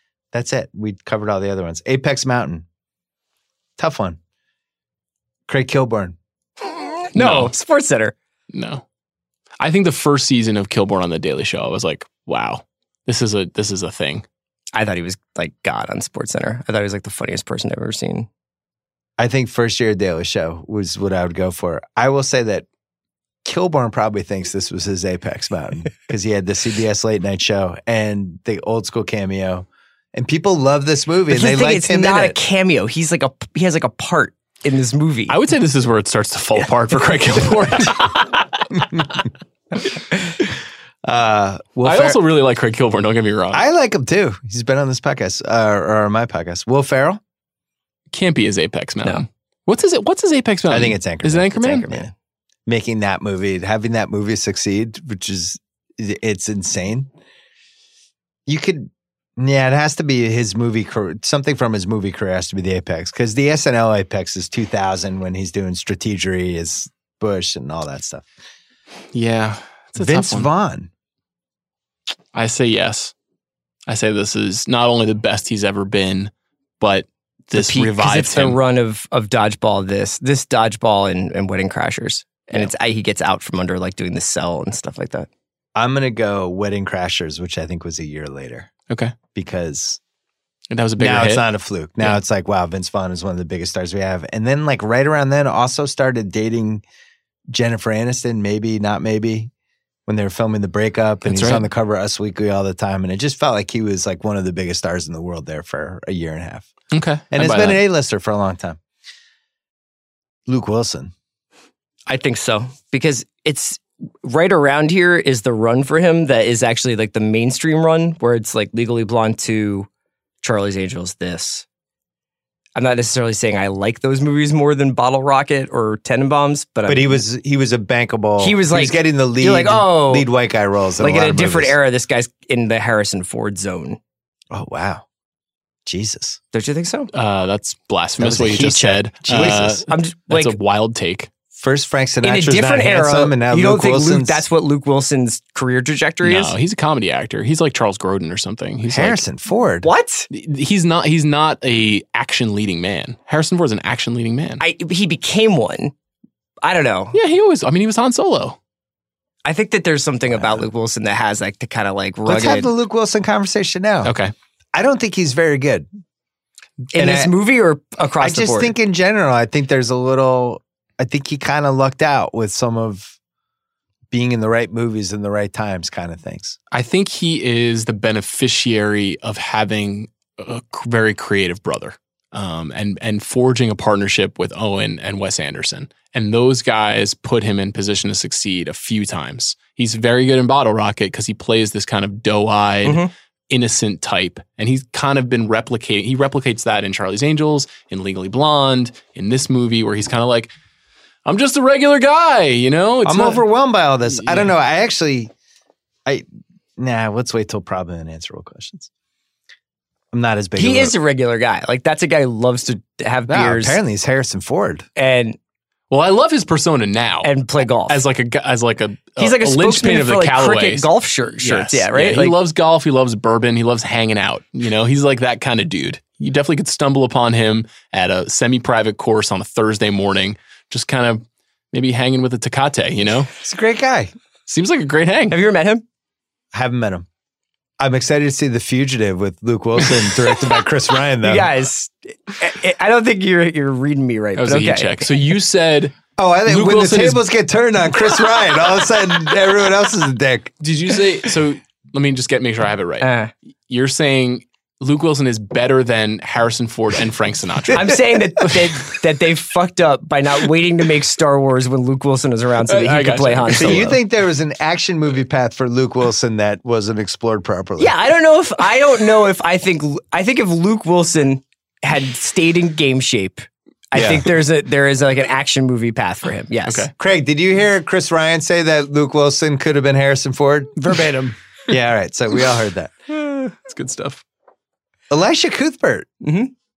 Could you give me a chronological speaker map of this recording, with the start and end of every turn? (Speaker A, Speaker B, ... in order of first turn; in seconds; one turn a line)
Speaker A: 0.3-2.7
Speaker A: 3.8-4.2
Speaker A: 5.5-6.2
Speaker B: 6.6-8.2
Speaker C: 7.2-7.5
Speaker C: 8.5-8.8
Speaker C: 9.6-14.2
Speaker B: 14.7-18.3
Speaker A: 19.2-22.7
Speaker A: 23.4-32.4
Speaker B: 31.3-35.4
Speaker C: 35.3-38.1
Speaker B: 38.0-38.4
Speaker A: 41.0-42.2
Speaker C: 41.8-43.6
Speaker A: 43.5-47.2
Speaker C: 48.1-51.9
Speaker A: 50.7-52.1
Speaker B: 51.5-52.1
Speaker A: 52.7-57.1
Speaker A: 58.5-68.3
Speaker C: 69.1-70.5
Speaker A: 70.0-70.9
Speaker C: 72.3-73.1
Speaker C: 73.9-78.6
Speaker B: 77.5-85.3
Speaker A: 85.8-88.7
Speaker C: 88.9-89.2
Speaker A: 89.3-90.0
Speaker C: 90.7-91.5
Speaker A: 91.0-96.8
Speaker A: 97.5-99.5
Speaker A: 100.1-106.7
Speaker C: 101.3-101.7
Speaker C: 106.9-107.8
Speaker A: 107.3-108.8
Speaker A: 110.5-111.1
Speaker B: 112.1-119.9
Speaker B: 120.4-121.7
Speaker B: 122.8-127.2
Speaker A: 126.9-131.8
Speaker B: 128.4-130.3
Speaker B: 131.0-134.0
Speaker A: 134.5-135.1
Speaker A: 135.9-136.4
Speaker B: 136.5-137.1
Speaker C: 137.1-141.3
Speaker A: 138.2-139.8
Speaker B: 139.3-140.6
Speaker A: 141.5-144.4
Speaker B: 142.2-146.5
Speaker C: 146.2-149.2
Speaker A: 148.8-149.9
Speaker B: 149.8-150.3
Speaker C: 150.3-154.6
Speaker B: 154.6-155.9
Speaker B: 156.6-157.2
Speaker C: 157.1-158.6
Speaker B: 159.4-162.7
Speaker A: 160.4-160.6
Speaker A: 162.2-164.1
Speaker C: 164.0-164.3
Speaker A: 164.7-165.9
Speaker B: 166.9-168.8
Speaker A: 166.9-167.3
Speaker A: 168.2-173.2
Speaker A: 174.1-176.6
Speaker C: 176.7-200.5
Speaker B: 192.8-193.1
Speaker C: 201.2-203.4
Speaker A: 203.1-205.3
Speaker C: 204.1-204.5
Speaker A: 206.8-208.9
Speaker A: 210.1-211.0
Speaker B: 210.6-213.8
Speaker A: 213.3-214.9
Speaker B: 215.0-215.4
Speaker C: 215.9-217.3
Speaker B: 217.2-218.0
Speaker C: 217.9-220.9
Speaker B: 219.2-222.4
Speaker C: 221.4-233.3
Speaker A: 233.4-234.1
Speaker C: 234.5-235.4
Speaker B: 235.3-235.8
Speaker A: 236.5-237.1
Speaker A: 237.8-241.5
Speaker B: 241.2-245.1
Speaker C: 244.4-247.2
Speaker A: 246.2-250.6
Speaker C: 250.6-253.1
Speaker B: 253.0-253.3
Speaker C: 253.7-258.9
Speaker B: 257.7-264.0
Speaker C: 262.6-263.9
Speaker A: 263.6-267.9
Speaker B: 267.8-276.9
Speaker A: 273.9-274.3
Speaker C: 276.7-276.9
Speaker A: 277.0-282.9
Speaker C: 283.1-284.2
Speaker A: 285.1-286.1
Speaker B: 286.2-286.5